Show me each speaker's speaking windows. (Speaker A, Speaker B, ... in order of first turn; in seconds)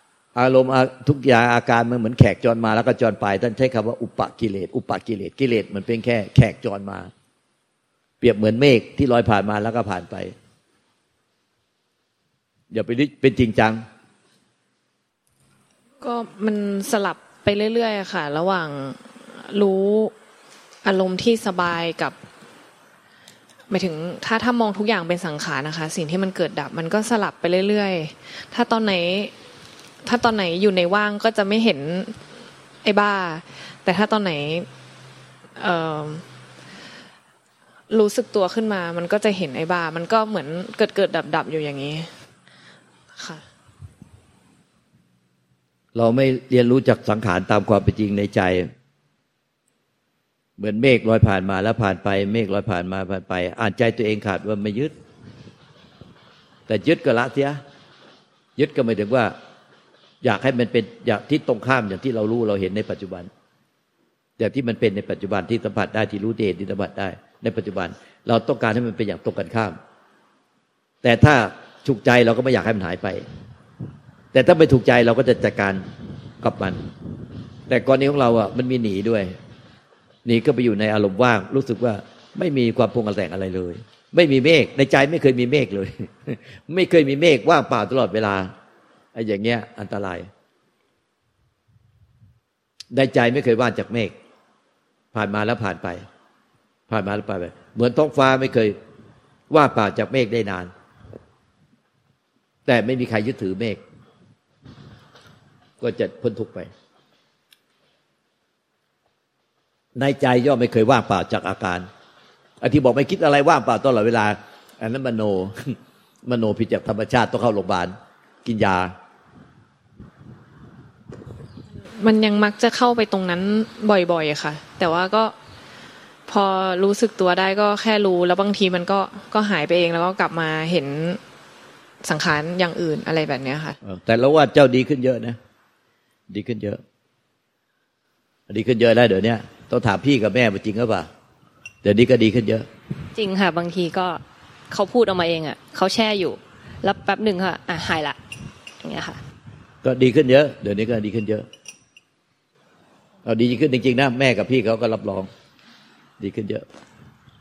Speaker A: 0.3-7.1, 8.2-10.3, 12.7-13.8, 46.0-48.7, 50.6-54.9, 56.7-57.6, 58.6-59.3, 60.2-63.3, 64.4-69.8, 71.0-73.2, 74.3-75.8, 76.4-76.8, 77.7-79.3, 80.2-88.5, 89.2-90.3, 92.9-94.1, 95.1-96.1, 96.9-98.8, 99.5-100.7, 102.7-103.8, 105.8-106.7, 110.0-111.9, 112.6-118.9, 133.8-135.4, 136.3-136.8, 138.5-141.1, 141.8-142.7, 149.8-151.5, 153.2-155.3, 156.2-156.6
Speaker B: 16.0-20.1, 20.8-22.1, 23.7-29.3, 30.0-32.2, 32.8-34.7, 35.6-36.2, 37.9-42.1, 43.2-43.4, 121.9-125.3, 126.3-131.2, 132.0-133.8
Speaker C: 143.2-148.2, 148.8-149.2